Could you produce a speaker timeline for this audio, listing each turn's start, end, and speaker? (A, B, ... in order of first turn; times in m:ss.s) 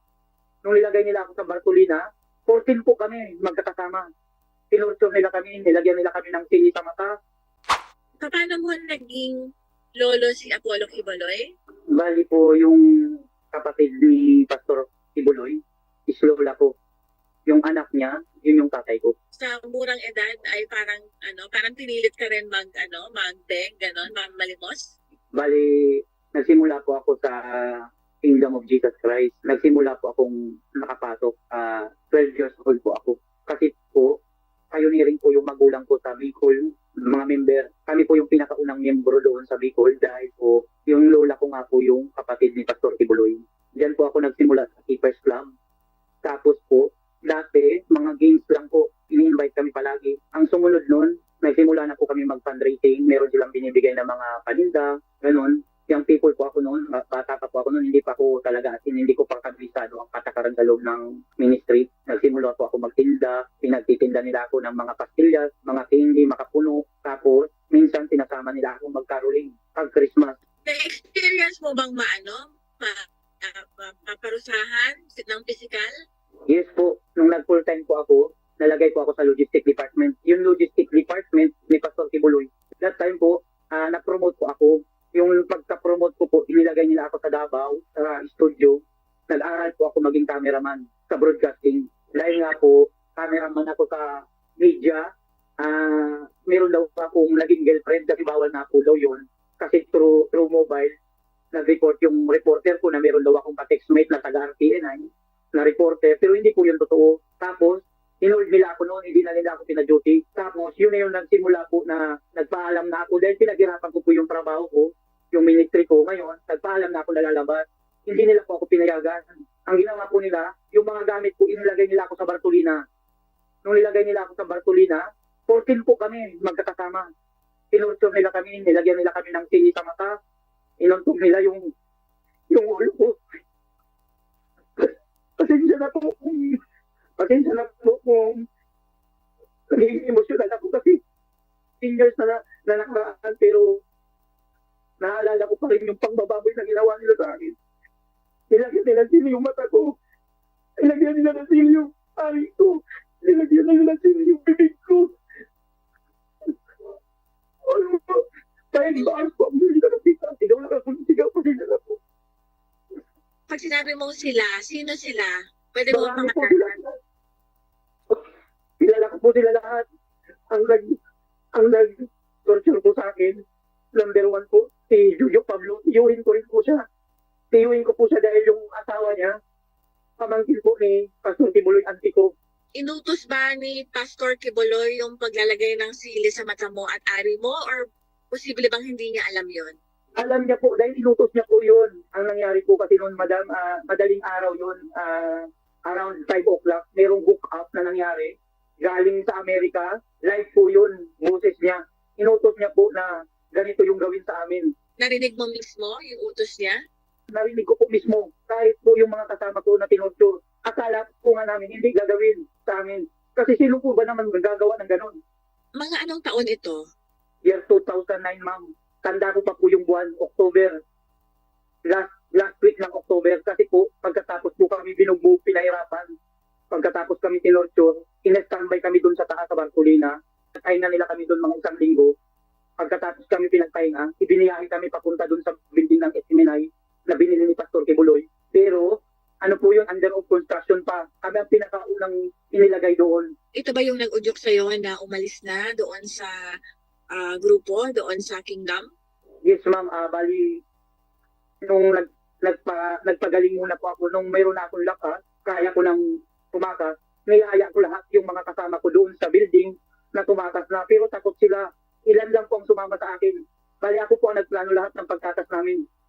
0:00.6-0:04.0 A
0:04.7-0:07.1 A
0:08.2-0:09.3 B
0:10.0-0:11.5 B
0:11.9-0:16.7 A
0:17.4-0:19.1 A
0:19.4-0:24.9 B
0:25.3-0:34.2 A
0:34.7-0:45.5 A
0:46.2-1:10.4 A
1:10.6-1:15.9 B
1:16.5-1:35.1 A
1:35.6-1:40.9 A
1:41.5-2:02.8 A
2:03.6-2:07.1 A
2:07.7-2:10.1 A
2:10.8-2:11.6 A
2:12.5-2:13.2 A
2:14.8-2:16.6 A
2:17.2-2:18.4 A
2:19.7-2:21.0 A
2:21.8-2:23.8 A
2:25.0-2:27.6 A
2:28.5-2:29.9 A
2:30.8-2:35.1 A
2:37.6-2:42.0 A
2:43.5-2:46.7 B
2:45.9-2:47.0 A
2:48.8-2:49.8 A
2:50.5-2:51.0 A
2:51.5-2:53.4 A
2:53.9-2:56.8 A
2:57.5-2:59.4 A
3:00.2-3:02.3 A
3:02.8-3:09.8 B
3:10.2-3:24.7 A
3:25.0-3:26.8 B
3:27.3-3:35.2 A
3:35.8-3:36.8 B
3:37.4-3:40.8 A
3:41.8-3:46.1 A
3:46.7-3:52.1 A
3:52.8-4:03.3 A
4:03.6-4:06.3 B
4:07.1-4:08.9 B
4:09.4-4:10.6 A
4:11.6-4:16.0 A
4:16.5-4:25.8 A